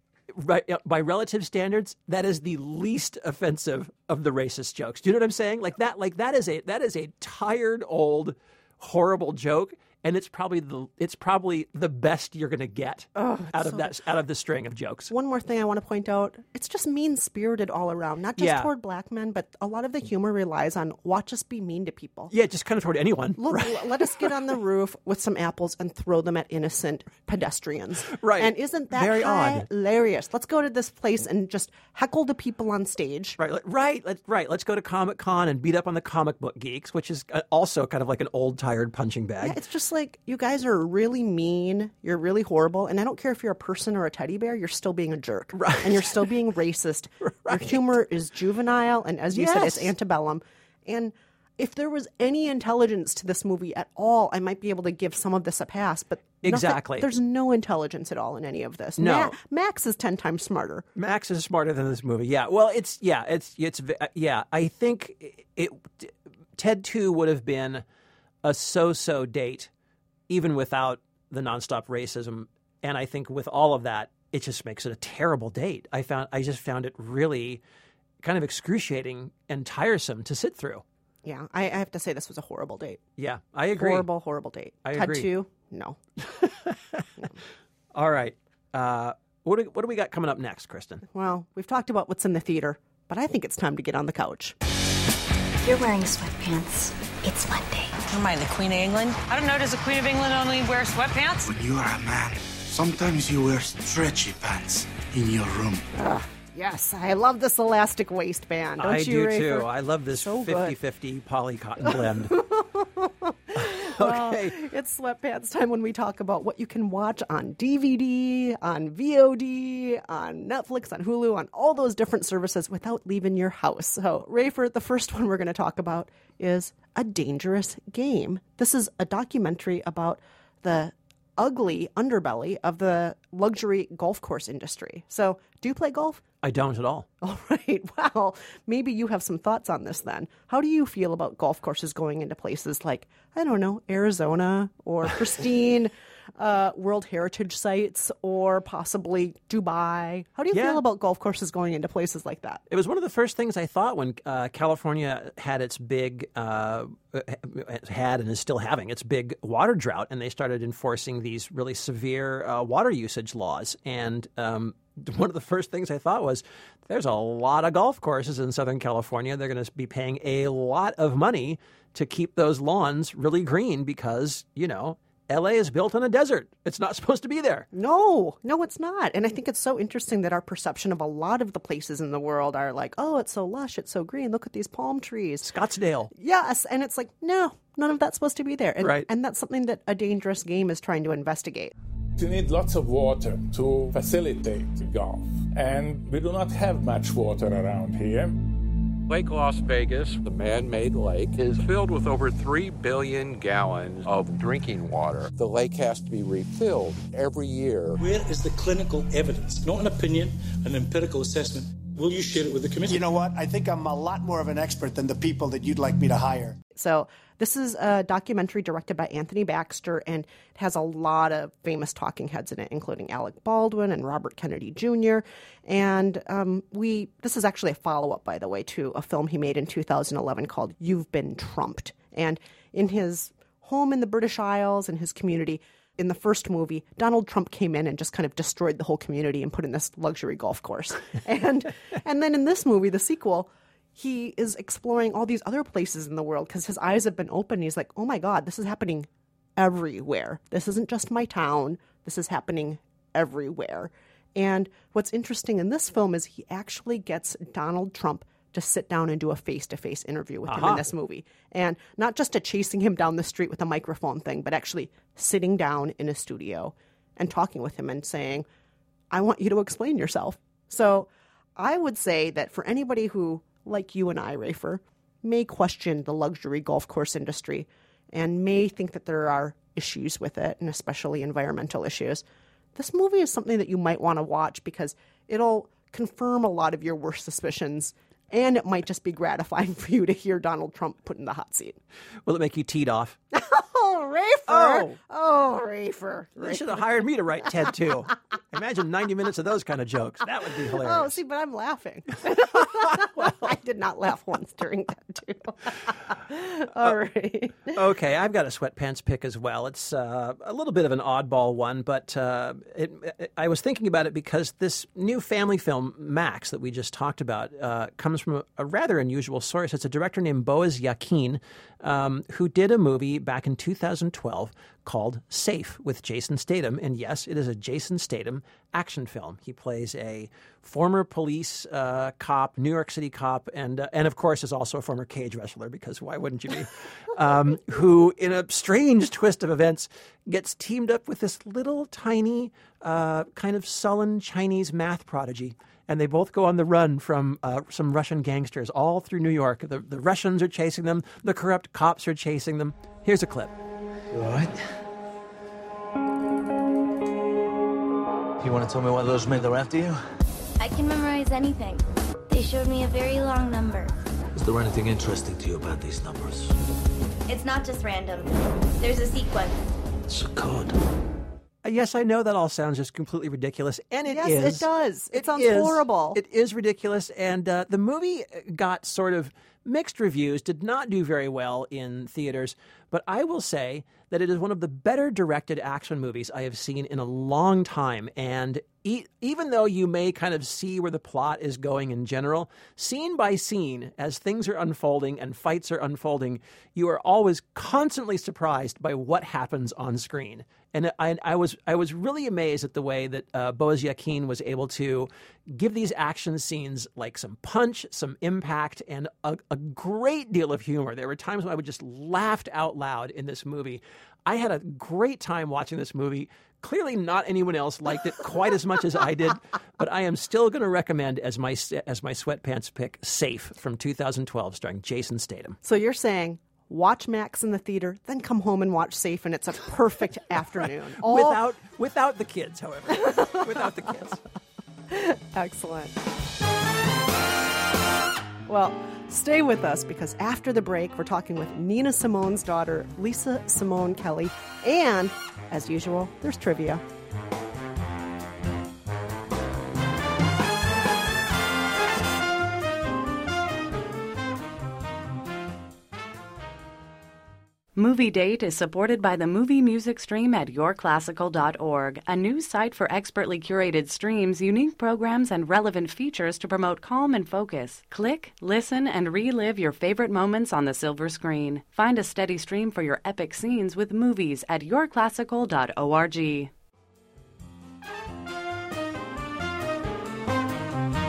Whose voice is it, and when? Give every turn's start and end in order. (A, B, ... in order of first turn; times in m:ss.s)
0:00.3-0:15.1 A
0:13.2-0:13.9 B
0:15.1-0:22.3 B
0:18.4-0:18.7 A
0:22.3-0:24.4 A
0:23.4-0:33.4 B
0:28.1-0:29.7 A
0:33.4-0:39.6 A
0:39.4-1:00.9 B
0:45.6-0:46.2 A
0:47.2-0:47.8 A
0:49.3-0:49.9 A
0:56.4-0:57.1 A
0:59.0-0:59.4 A
1:01.0-1:07.8 A
1:08.4-1:09.7 A
1:10.3-1:17.6 A
1:18.2-1:20.8 A
1:21.2-1:23.0 B
1:23.2-1:24.1 A
1:23.7-1:26.0 B
1:24.8-1:25.3 A
1:26.3-1:27.1 A
1:27.9-1:31.0 A
1:31.1-1:34.6 B
1:35.6-1:37.9 C
1:38.1-1:41.5 D
1:41.4-1:45.8 E
1:46.0-1:50.8 B
1:48.8-1:52.4 A
1:51.8-2:16.2 B
1:53.6-1:54.6 A
2:16.4-2:17.1 A
2:17.2-2:32.6 B
2:30.5-2:30.8 A
2:32.7-2:57.7 A
2:57.7-3:05.5 B
3:05.4-3:06.1 A
3:06.1-3:11.7 B
3:08.8-3:09.1 A
3:12.2-3:18.4 F
3:19.1-3:28.0 G
3:28.0-3:33.0 H
3:32.9-3:36.6 I
3:36.8-4:28.5 B
4:20.5-4:20.9 A
4:29.1-4:42.2 B
4:42.8-4:51.8 B
4:52.3-4:53.2 A
4:53.3-4:57.7 B
4:54.5-4:55.0 A
4:56.4-5:01.2 A
5:00.7-5:07.8 B
5:07.7-5:53.5 A
5:54.1-5:54.7 J
5:58.4-6:00.0 J
6:00.6-6:03.9 K
6:04.4-6:06.5 J
6:07.3-6:09.6 K
6:10.1-6:10.8 J
6:11.6-7:05.6 A
6:14.1-6:16.2 B
7:05.6-7:11.4 B
7:11.0-7:14.2 A
7:12.9-7:13.9 B
7:14.9-7:15.9 B
7:18.5-7:26.8 B
7:37.8-7:56.5 L